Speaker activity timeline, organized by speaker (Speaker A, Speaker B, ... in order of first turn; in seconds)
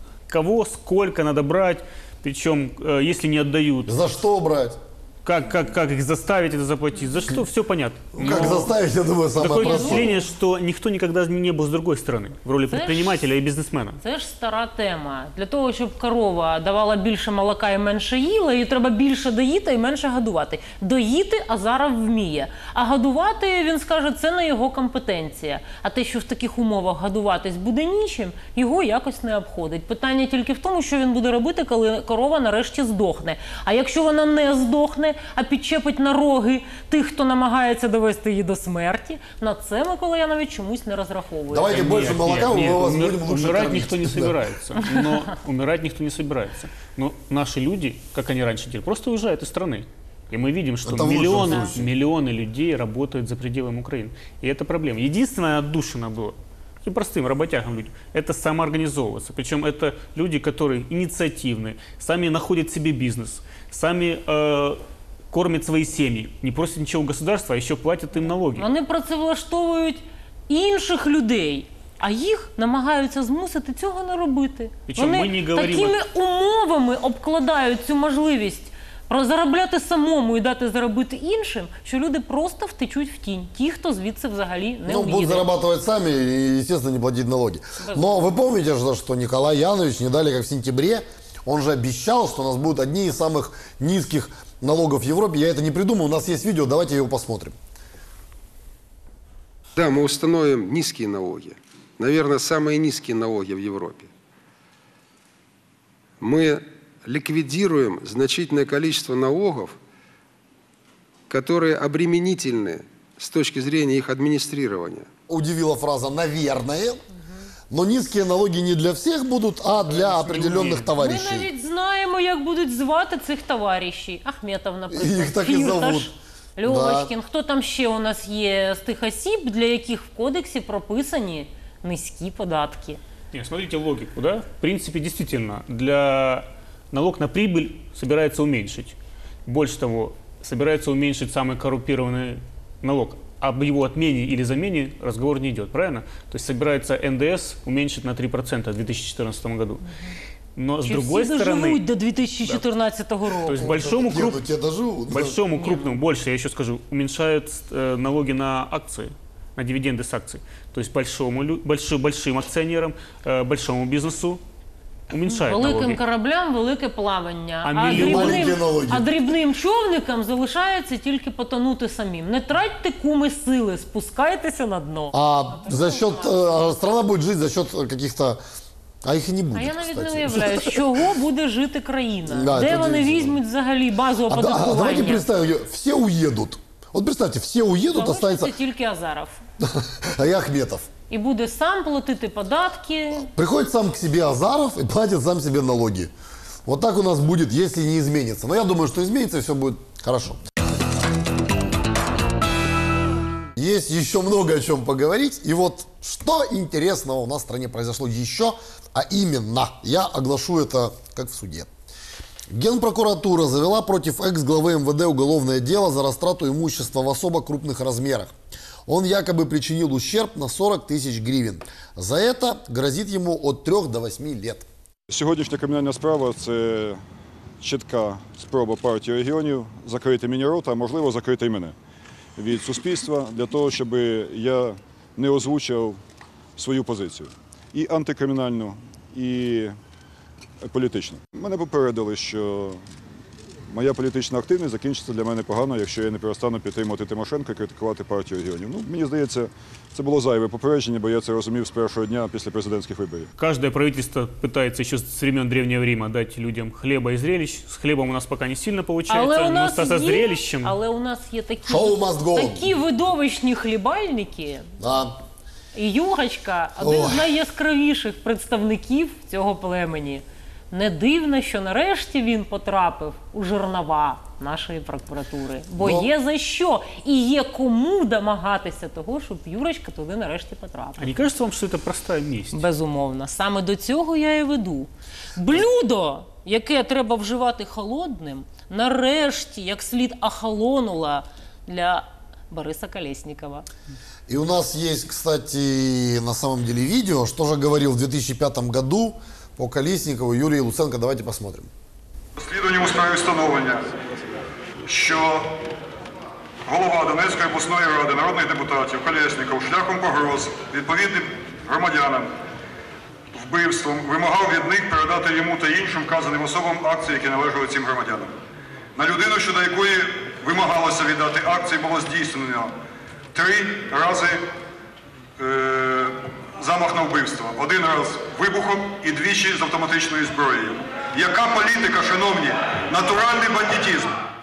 Speaker A: 0.3-4.0, 5.2-8.7, 9.4-14.0, 41.7-64.8, 65.3-68.7, 74.9-76.0, 119.8-121.0, 133.3-149.8, 150.6-151.8, 153.5-154.4, 155.1-164.4, 165.1-166.0, 167.6-168.6, 253.4-260.8, 281.0-282.6
Speaker B: 3.9-4.8, 8.2-10.1, 41.5-44.4, 50.9-51.9, 84.9-97.5, 115.3-117.0, 117.7-121.5, 124.9-126.1, 126.6-127.1, 153.6-155.4, 167.9-169.1, 175.1-178.4, 179.0-181.0, 182.3-183.4, 184.3-188.5, 189.6-190.9, 193.2-196.1, 196.7-200.4, 203.6-211.7, 212.5-218.3, 218.9-224.7, 261.7-262.7, 264.8-265.1, 266.8-267.2, 294.3-301.7
Speaker C: 9.6-10.3, 12.7-13.3, 14.0-42.0, 51.4-51.7, 68.5-85.5, 87.8-88.3, 121.0-133.0, 150.8-153.7, 155.5-156.0, 165.3-176.6, 179.5-185.3, 187.9-189.4, 191.1-193.3, 259.1-264.7, 265.7-281.1, 282.5-293.7
Speaker D: 99.8-104.1, 106.2-109.8, 111.3-115.1
Speaker E: 225.1-227.0, 227.6-231.8, 232.4-236.0, 236.6-239.8, 240.6-242.8, 243.7-253.3, 319.3-319.7
Speaker F: 302.4-303.9, 304.9-305.5, 306.7-312.3, 313.3-318.4, 319.0-322.8, 323.3-324.4, 325.4-334.2